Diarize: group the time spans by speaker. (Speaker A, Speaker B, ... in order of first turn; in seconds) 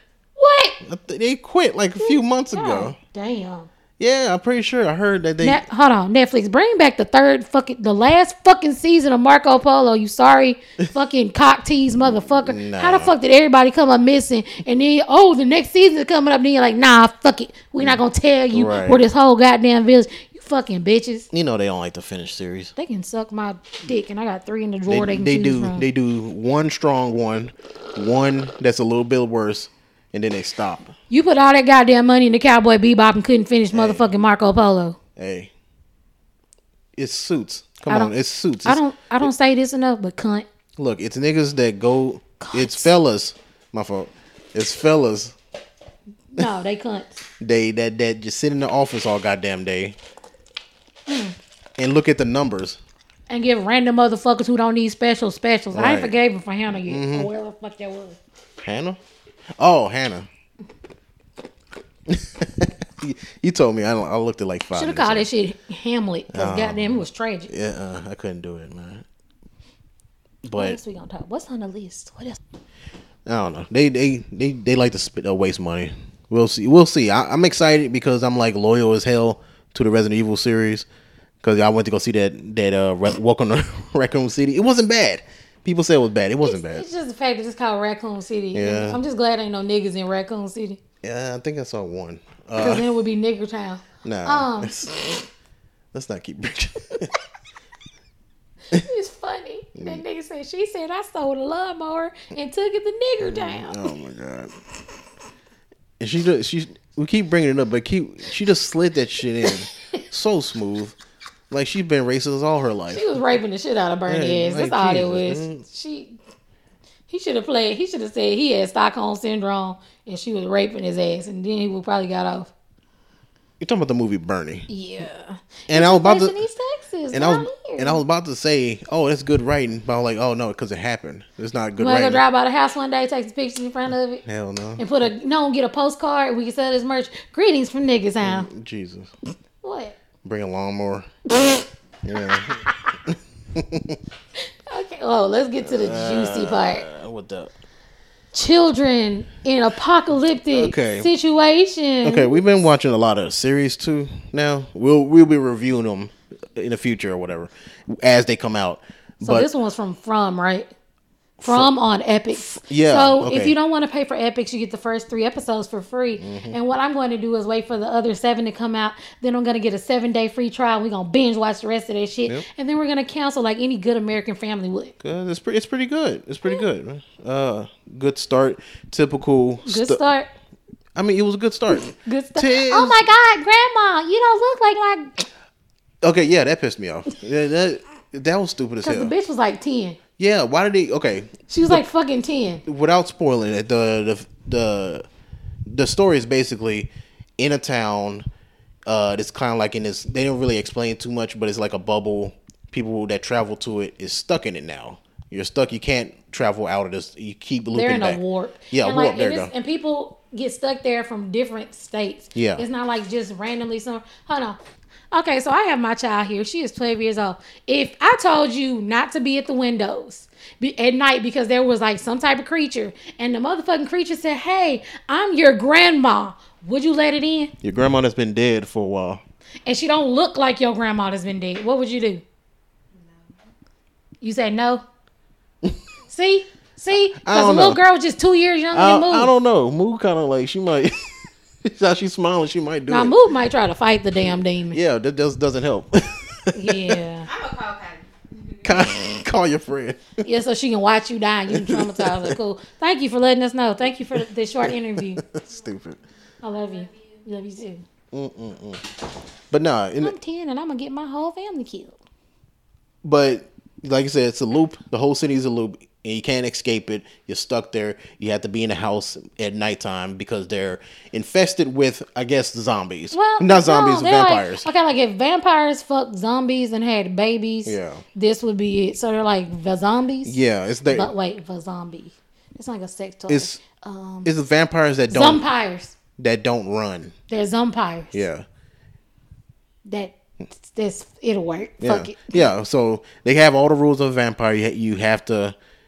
Speaker A: 0.4-0.8, 2.0-3.7, 5.4-21.3, 22.8-25.9, 31.1-35.0, 37.9-40.5, 42.4-42.9, 46.3-47.1, 51.1-51.3, 53.3-58.2, 64.7-67.5, 70.5-72.4, 86.4-90.8, 92.6-94.8, 98.7-103.9, 112.9-116.2, 117.1-122.5, 124.7-128.0, 131.8-134.2, 134.8-138.5, 139.6-140.0, 141.3-141.6, 142.2-143.0, 144.7-146.8, 148.3-152.4, 159.2-160.7, 161.4-174.9, 179.6-180.3, 181.7-185.2, 188.8-190.0, 191.5-192.6, 207.7-214.6, 215.1-227.5, 229.7-232.2, 234.2-234.8, 236.1-239.3, 242.9-244.8, 246.5-247.3, 250.2-255.2, 256.4-257.8, 260.0-262.0, 273.1-284.3, 285.1-285.9, 287.3-288.2, 289.9-292.4
Speaker B: 0.8-3.0, 4.0-5.6, 12.0-13.1, 18.5-19.0, 21.3-22.7, 24.9-30.9, 33.7-34.1, 35.1-35.5, 37.0-38.8, 40.8-45.4, 47.4-50.0, 51.8-52.8, 55.7-56.1, 56.7-57.3, 58.6-59.0, 59.6-60.3, 62.1-65.2, 66.3-69.0, 70.4-70.8, 73.2-80.9, 81.4-86.8, 88.5-89.0, 91.0-92.8, 94.0-95.2, 95.9-97.1, 99.8-100.0, 103.2-104.5, 106.0-111.0, 111.5-113.1, 114.1-115.6, 123.6-124.7, 125.7-126.4, 127.1-132.2, 134.2-134.8, 138.2-139.1, 140.2-141.1, 142.0-144.0, 145.6-147.5, 150.5-151.1, 152.0-159.5, 161.4-161.7, 162.4-163.6, 166.2-166.6, 175.0-180.0, 180.9-183.0, 186.0-189.1, 190.2-191.8, 192.6-195.1, 195.7-198.2, 198.9-209.5, 212.3-212.6, 227.6-229.2, 237.2-237.8, 238.7-243.2, 244.7-247.0, 248.6-250.2, 251.5-252.4, 254.1-256.0, 258.1-258.8, 259.5-260.1, 263.0-274.7, 277.6-278.0, 280.2-281.1, 283.3-283.6, 284.2-285.4, 286.2-287.1, 288.1-288.4, 291.8-295.5